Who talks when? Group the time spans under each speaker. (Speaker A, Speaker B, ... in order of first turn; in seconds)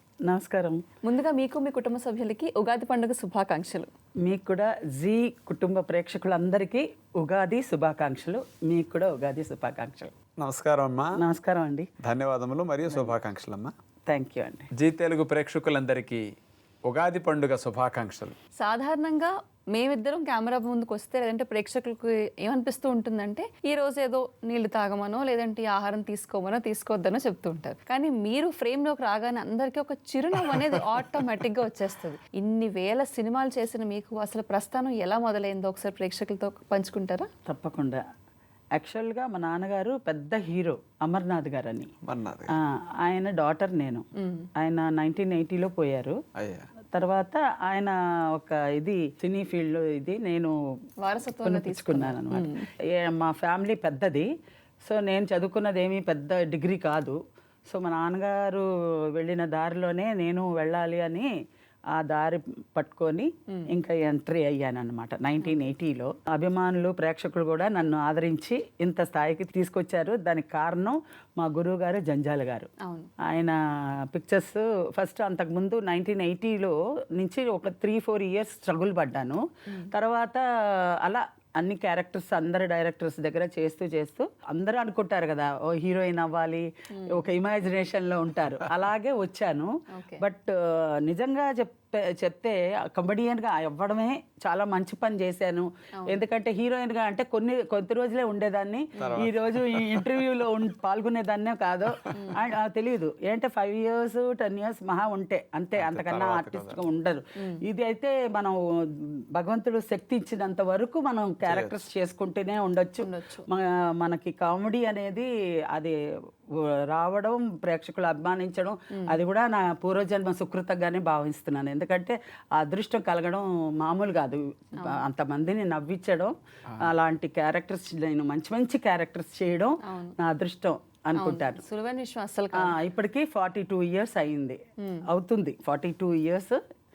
Speaker A: 0.3-0.8, 4.2-10.1, 11.2-11.9, 14.1-14.7, 37.5-38.0, 38.8-41.9, 42.5-46.2, 46.9-50.5, 51.4-54.3, 54.9-57.2, 57.7-61.3, 62.0-72.7, 73.2-73.6, 74.1-108.6, 109.3-116.0, 116.9-131.6, 132.6-136.6
Speaker B: 1.0-3.9, 18.6-37.3, 44.2-44.5, 51.0-52.6, 72.8-73.1, 87.0-87.2, 89.9-90.2, 102.1-102.4, 113.0-113.5, 129.8-130.2, 131.2-132.8, 134.8-135.1
Speaker C: 10.4-11.2, 12.0-13.7, 14.7-16.2, 16.9-18.4, 42.0-42.6, 46.4-46.7, 99.0-100.3, 101.9-102.2, 105.8-106.8, 111.4-111.8